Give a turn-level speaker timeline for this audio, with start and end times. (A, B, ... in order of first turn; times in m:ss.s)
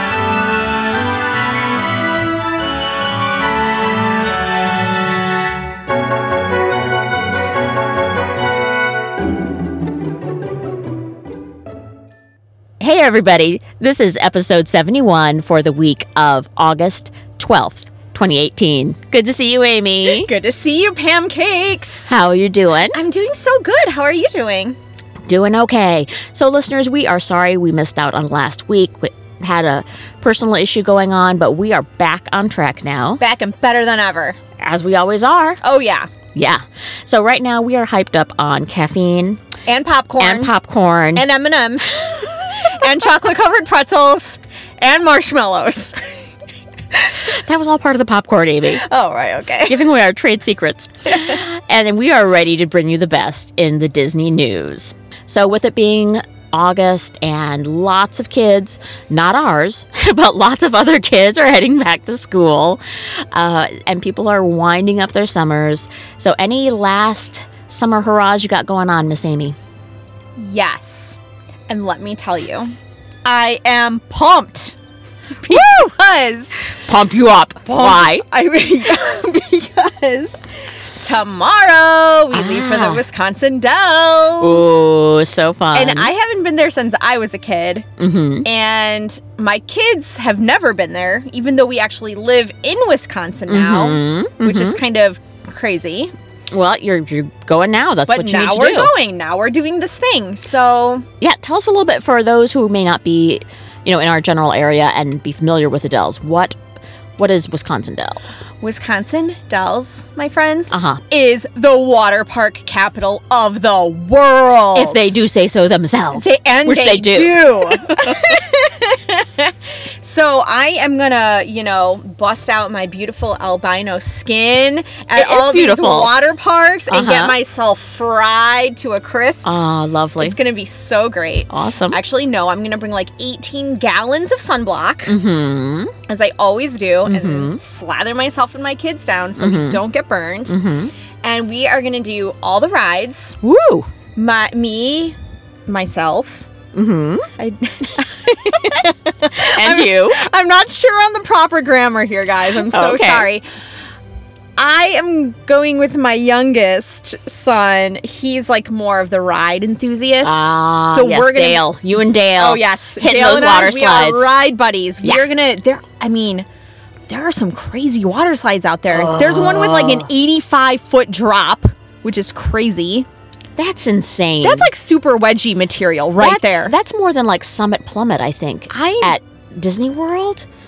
0:12.8-0:20.3 A
0:20.2-0:22.1 B
0:22.1-0:23.0 A
0:22.9-0:24.8 B
0:25.3-0:33.2 A
0:33.2-0:34.4 B
0:34.6-0:35.6 A
0:35.6-0:36.1 B
0:36.3-0:39.4 A
0:39.7-0:40.5 B
0:40.2-0:41.2 A
0:41.1-0:46.2 B
0:47.2-0:48.8 A
0:48.8-0:49.9 B
0:49.7-1:02.8 A
1:03.3-1:09.6 A
1:10.4-1:11.2 B
1:11.7-1:12.7 B
1:13.2-1:14.8 B
1:15.4-1:16.6 B
1:16.8-1:18.2 A
1:17.7-1:20.4 B
1:21.0-1:24.9 B
1:22.3-1:23.0 A
1:24.4-1:26.1 A
1:25.7-1:27.8 B
1:28.0-1:28.5 A
1:28.4-1:36.1 B
1:33.5-1:34.8 A
1:36.5-1:38.9 A
1:38.1-1:41.0 B
1:41.2-1:46.6 A
1:47.2-1:48.4 A
1:48.5-1:55.1 B
1:50.7-1:51.0 A
1:54.7-1:58.0 A
1:56.2-2:09.5 B
2:05.1-2:06.1 A
2:06.9-2:07.3 A
2:09.4-2:10.4 A
2:10.2-2:15.1 B
2:11.5-2:12.0 A
2:15.0-2:15.9 A
2:16.1-2:20.6 B
2:17.0-2:17.6 A
2:19.4-2:19.8 A
2:20.4-2:20.9 A
2:21.2-2:23.4 B
2:23.4-2:23.9 A
2:24.2-2:25.2 B
2:25.7-2:26.5 B
2:26.7-2:27.3 A
2:27.4-2:33.4 B
2:29.4-2:30.2 A
2:32.6-2:33.3 A
2:34.6-2:41.6 B
2:40.2-2:44.3 A
2:42.2-2:46.4 B
2:47.1-2:53.1 B
2:48.9-2:50.1 A
2:53.6-2:54.7 A
2:54.4-2:56.7 B
2:56.2-3:00.4 A
2:58.7-2:59.1 B